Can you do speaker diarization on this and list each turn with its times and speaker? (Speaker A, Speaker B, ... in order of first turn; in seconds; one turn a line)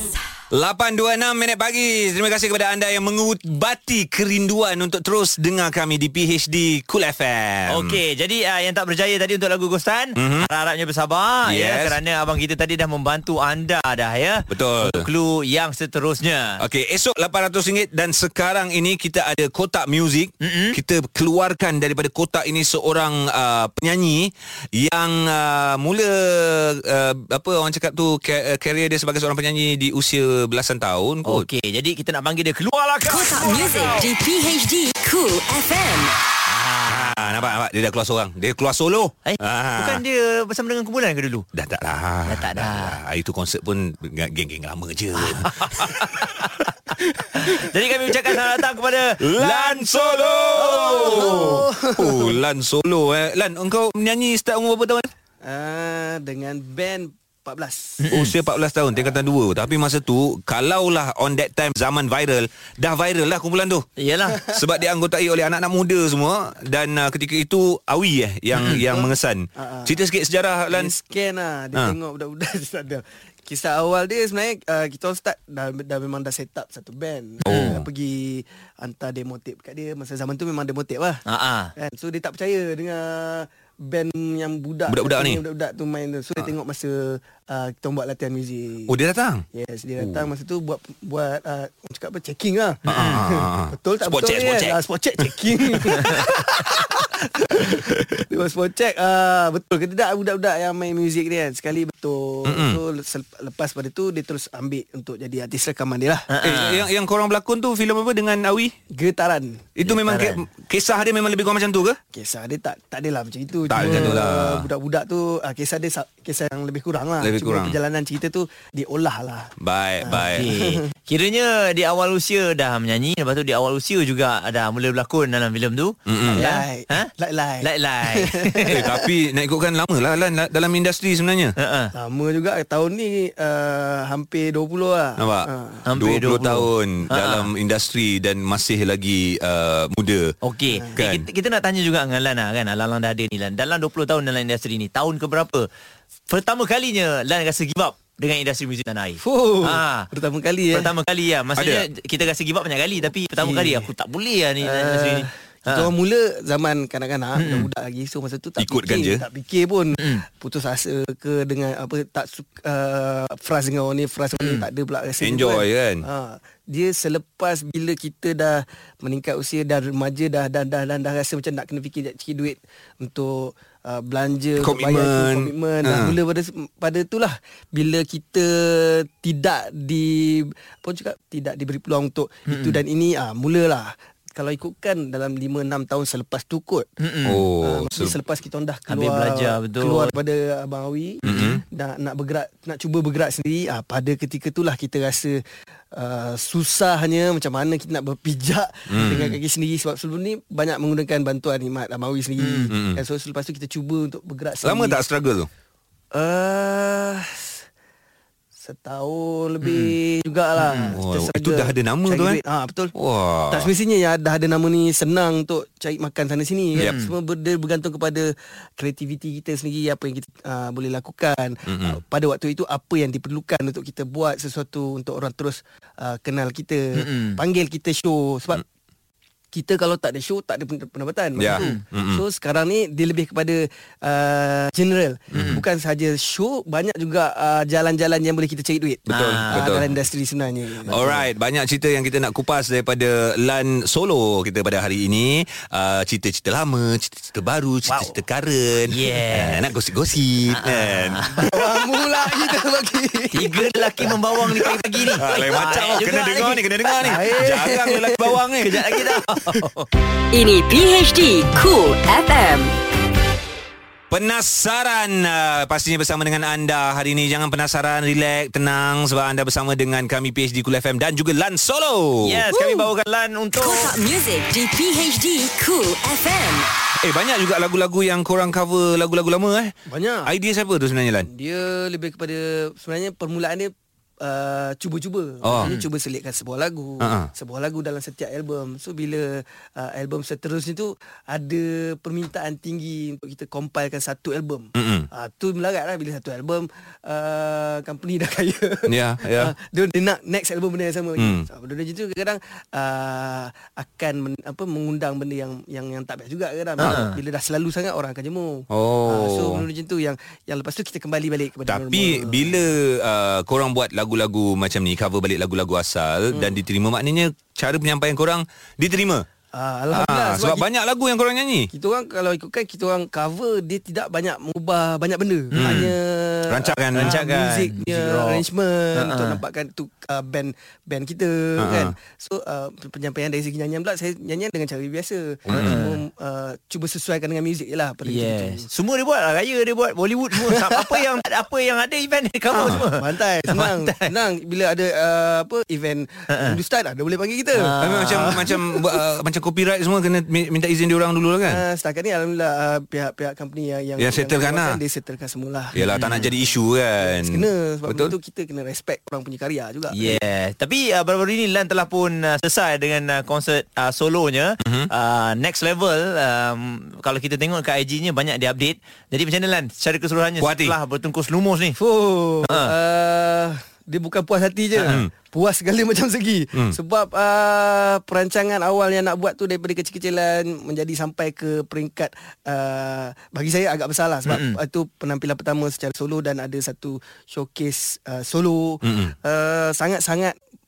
Speaker A: 0.5-8.0
Speaker B: 7.7-16.6
Speaker A: 10.2-10.5
Speaker A: 11.5-12.0
Speaker A: 14.5-15.1
Speaker A: 16.6-31.5
Speaker B: 20.4-20.8
Speaker B: 31.2-34.0
Speaker C: 33.1-36.1
Speaker B: 36.5-37.5
Speaker A: 36.9-40.0
Speaker B: 39.3-41.5
Speaker A: 41.5-46.5
Speaker B: 42.3-43.0
Speaker B: 45.2-46.3
Speaker A: 47.3-47.6
Speaker B: 47.4-51.6
Speaker A: 49.2-55.1
Speaker D: 50.6-52.4
Speaker D: 55.4-58.0
Speaker B: 58.0-58.3
Speaker A: 58.1-63.9
Speaker B: 64.0-64.4
Speaker A: 64.5-70.9
Speaker D: 68.7-70.0
Speaker D: 70.7-81.2
Speaker A: 77.5-77.9
Speaker B: 77.5-77.8
Speaker B: 81.3-81.7
Speaker D: 81.8-89.0
Speaker A: 84.9-85.4
Speaker A: 88.9-89.5
Speaker D: 89.5-106.3
Speaker A: 90.0-90.3
Speaker A: 92.9-96.3
Speaker B: 92.9-93.2
Speaker A: 97.6-98.2
Speaker A: 102.5-102.8
Speaker B: 106.3-106.9
Speaker A: 106.4-108.8
Speaker D: 108.9-109.7
Speaker A: 109.8-112.0
Speaker B: 109.9-110.4
Speaker D: 112.1-119.5
Speaker A: 113.7-114.7
Speaker B: 113.8-114.2
Speaker A: 117.2-117.8
Speaker A: 119.6-120.5
Speaker D: 120.0-120.8
Speaker B: 120.1-127.1
Speaker A: 126.1-126.5
Speaker D: 126.3-129.0
Speaker B: 127.6-128.9
Speaker A: 128.7-131.6
Speaker B: 131.6-131.9
Speaker D: 131.9-135.8
Speaker A: 135.2-140.3
Speaker B: 135.9-137.5
Speaker B: 140.4-145.7
Speaker A: 141.0-141.3
Speaker B: 146.3-150.1
Speaker D: 149.2-150.9
Speaker B: 150.7-155.9
Speaker A: 151.6-151.9
Speaker D: 153.4-153.9
Speaker D: 154.6-186.9
Speaker B: 157.4-157.7
Speaker A: 158.6-159.2
Speaker B: 164.4-164.7
Speaker A: 165.2-166.1
Speaker A: 174.6-176.2
Speaker B: 182.5-182.8
Speaker B: 187.0-187.4
Speaker A: 187.2-188.2
Speaker D: 187.6-195.4
Speaker B: 188.9-190.1
Speaker A: 191.3-191.6
Speaker B: 191.3-191.6
Speaker D: 195.9-205.0
Speaker A: 198.9-199.3
Speaker B: 199.1-199.3
Speaker B: 202.4-202.7
Speaker A: 202.7-203.0
Speaker A: 204.6-205.5
Speaker D: 206.1-207.6
Speaker D: 208.6-212.9
Speaker B: 209.6-209.9
Speaker B: 210.6-210.9
Speaker A: 210.9-212.4
Speaker A: 212.9-213.7
Speaker D: 213.5-228.6
Speaker B: 216.8-217.1
Speaker A: 221.7-222.0
Speaker B: 227.0-227.4
Speaker D: 229.5-241.3
Speaker A: 231.4-232.2
Speaker B: 231.6-231.8
Speaker A: 235.3-235.6
Speaker B: 235.3-235.6
Speaker A: 239.1-239.9
Speaker B: 239.1-239.8
Speaker A: 240.9-251.6
Speaker B: 248.9-249.6
Speaker B: 250.5-251.5
Speaker D: 251.4-254.2
Speaker B: 253.3-257.4
Speaker A: 255.1-259.0
Speaker D: 257.0-258.4
Speaker B: 258.6-259.9
Speaker C: 260.3-262.7
Speaker A: 264.1-272.4
Speaker B: 272.2-274.0
Speaker C: 272.5-272.9
Speaker C: 273.6-276.7
Speaker A: 277.0-279.8
Speaker D: 279.9-280.3
Speaker A: 280.3-281.3
Speaker D: 281.3-312.6
Speaker A: 285.4-285.7
Speaker B: 285.6-285.9
Speaker A: 287.0-287.3
Speaker A: 294.8-295.1
Speaker A: 298.9-299.5
Speaker A: 301.2-301.5
Speaker B: 306.8-307.2
Speaker A: 308.7-309.7
Speaker A: 311.7-319.3
Speaker D: 316.3-316.6
Speaker D: 319.5-320.6
Speaker A: 319.9-321.7
Speaker D: 321.7-338.7
Speaker B: 325.5-325.9
Speaker A: 325.6-325.9
Speaker A: 326.5-327.2
Speaker B: 327.0-329.4
Speaker A: 331.6-331.9
Speaker A: 335.5-335.8
Speaker B: 335.5-336.0
Speaker B: 338.1-344.1
Speaker D: 340.4-341.1
Speaker D: 342.5-348.8
Speaker A: 342.6-342.8
Speaker B: 346.3-346.6
Speaker B: 347.5-348.4
Speaker A: 347.8-351.6
Speaker D: 351.5-360.2
Speaker A: 354.0-354.8
Speaker A: 355.7-358.1
Speaker B: 355.9-356.3
Speaker B: 359.9-371.8
Speaker A: 364.6-364.9
Speaker A: 370.4-370.8
Speaker D: 371.8-390.4
Speaker B: 372.4-372.7
Speaker B: 384.3-384.6
Speaker A: 388.8-389.1